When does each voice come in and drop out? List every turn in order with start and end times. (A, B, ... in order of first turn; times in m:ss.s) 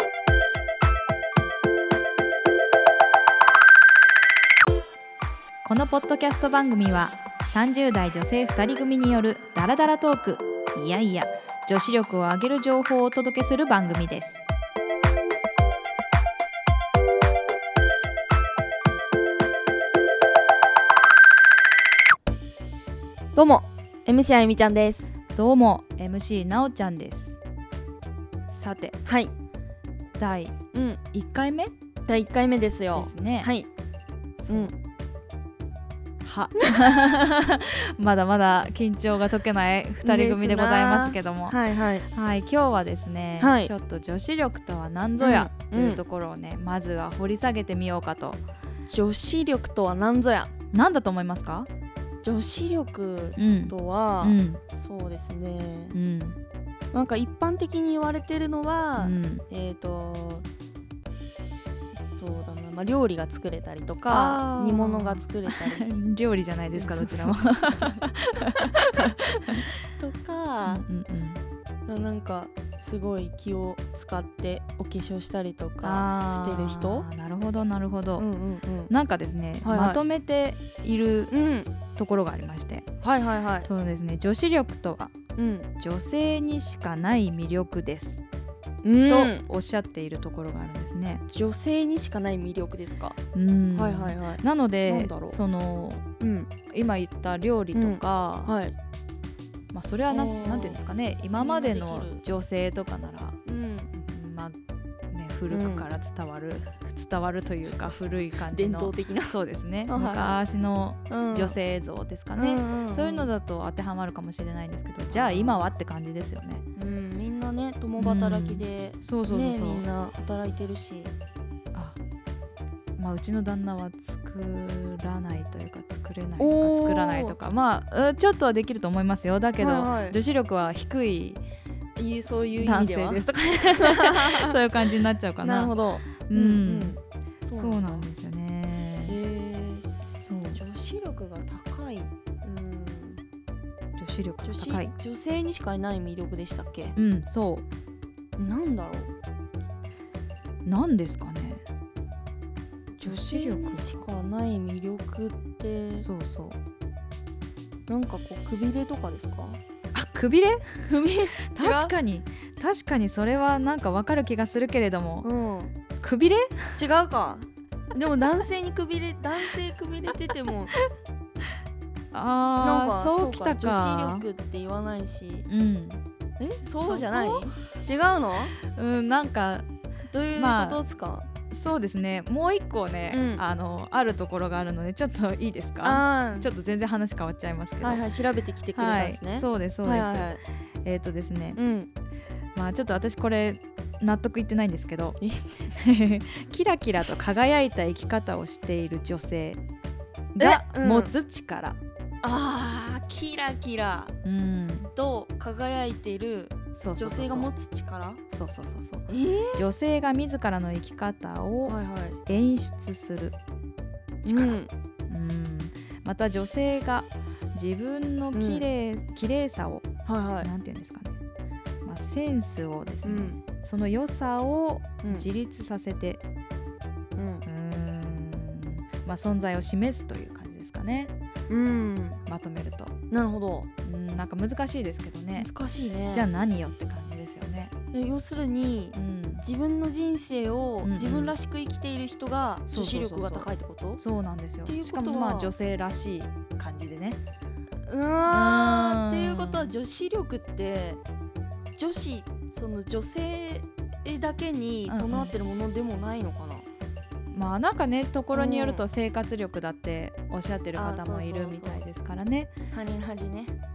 0:05.6-0:14.4 A
0:23.4-0:25.1 B
0:25.3-0:27.4 A
0:28.5-0:29.0 A
0:29.0-0:29.3 B
0:30.2-0:30.6 A
0:30.7-0:31.0 B
0:31.1-0:31.7 A
0:32.1-0:33.7 B
0:32.9-0:33.5 A
0:34.4-0:34.8 A
0:34.5-0:34.7 B
0:36.2-0:41.6 A
0:40.0-0:42.1 B
0:42.1-0:48.4 A
0:43.4-0:43.7 B
0:45.2-0:46.0 B
0:48.9-0:50.5 B
0:50.7-0:51.7 A
0:52.2-0:56.0 B
0:53.4-0:54.6 A
0:55.9-0:56.4 A
0:56.9-1:00.5 B
0:59.0-0:59.4 A
1:02.0-1:06.0 B
1:04.1-1:09.6 A
1:06.7-1:07.4 B
1:09.8-1:10.8 B
1:10.7-1:11.4 A
1:11.9-1:17.1 B
1:15.8-1:18.3 A
1:18.2-1:18.9 B
1:18.9-1:21.3 A
1:19.6-1:20.0 B
1:21.3-1:21.7 B
1:22.0-1:22.9 A
1:23.0-1:23.7 B
1:23.6-1:25.1 A
1:25.4-1:25.7 B
1:25.8-1:28.2 A
1:28.8-1:29.5 B
1:29.1-1:31.2 A
1:31.3-1:33.2 B
1:33.3-1:36.0 A
1:33.7-1:35.4 B
1:36.2-1:36.5 B
1:36.7-1:38.5 A
1:37.7-1:38.8 B
1:39.7-1:43.4 A
1:40.1-1:42.2 B
1:43.4-1:43.9 B
1:43.9-1:44.6 A
1:45.1-1:56.6 A
1:45.5-1:45.9 B
1:48.5-1:50.4 B
1:51.1-1:51.6 B
1:52.4-1:53.3 B
1:55.1-1:55.7 B
1:56.8-2:01.1 B
1:58.0-1:59.8 A
2:01.7-2:02.0 A
2:03.0-2:11.4 A
2:06.4-2:07.4 B
2:09.6-2:10.2 B
2:12.0-2:14.6 B
2:12.6-2:17.0 A
2:15.4-2:18.1 B
2:17.5-2:19.2 A
2:19.1-2:19.9 B
2:20.2-2:20.6 A
2:20.6-2:23.2 B
2:24.0-2:24.9 A
2:24.4-2:27.0 B
2:27.0-2:27.7 A
2:28.4-2:29.1 B
2:30.7-2:31.6 A
2:33.0-2:34.0 A
2:33.0-2:36.1 B
2:35.9-2:36.6 A
2:37.9-2:39.6 B
2:39.9-2:40.9 A
2:40.9-2:42.0 B
2:41.5-2:45.3 A
2:45.2-2:45.7 B
2:46.0-2:46.8 A
2:46.8-2:50.8 B
2:52.1-2:54.3 A
2:52.6-2:55.5 B
2:55.5-2:56.0 A
2:56.4-2:58.6 B
2:56.8-2:57.5 A
2:58.6-2:59.7 A
3:00.1-3:01.3 B
3:00.4-3:00.8 A
3:01.5-3:08.0 A
3:03.1-3:03.4 B
3:05.8-3:06.5 B
3:07.8-3:10.4 B
3:08.8-3:11.6 A
3:11.6-3:11.9 B
3:12.6-3:15.2 A
3:15.2-3:15.5 B
3:15.7-3:19.6 A
3:20.4-3:21.8 A
3:20.4-3:21.1 B
3:22.2-3:24.2 B
3:24.2-3:24.9 A
3:25.0-3:28.2 B
3:26.8-3:27.5 A
3:28.3-3:33.4 A
3:29.1-3:29.7 B
3:31.7-3:32.2 B
3:34.2-3:39.9 A
3:34.2-3:34.7 B
3:38.3-3:38.7 B
3:40.0-3:40.5 B
3:40.4-3:41.2 A
3:41.8-3:46.2 A
3:43.0-3:43.4 B
3:45.0-3:45.3 B
3:47.2-3:47.5 B
3:47.5-3:51.1 A
3:51.5-3:52.2 B
3:52.3-3:52.9 A
3:53.1-3:53.7 B
3:53.8-3:55.5 A
3:55.4-3:56.3 B
3:56.1-3:57.7 A
3:57.9-4:04.0 B
3:59.0-3:59.5 A
4:00.8-4:01.4 A
4:02.7-4:07.2 A
4:04.6-4:05.5 B
4:07.9-4:11.0 B
4:08.2-4:09.8 A
4:11.8-4:16.7 B
4:14.9-4:15.3 A
4:17.3-4:22.5 A
4:18.3-4:18.9 B
4:20.7-4:21.8 B
4:22.7-4:23.6 B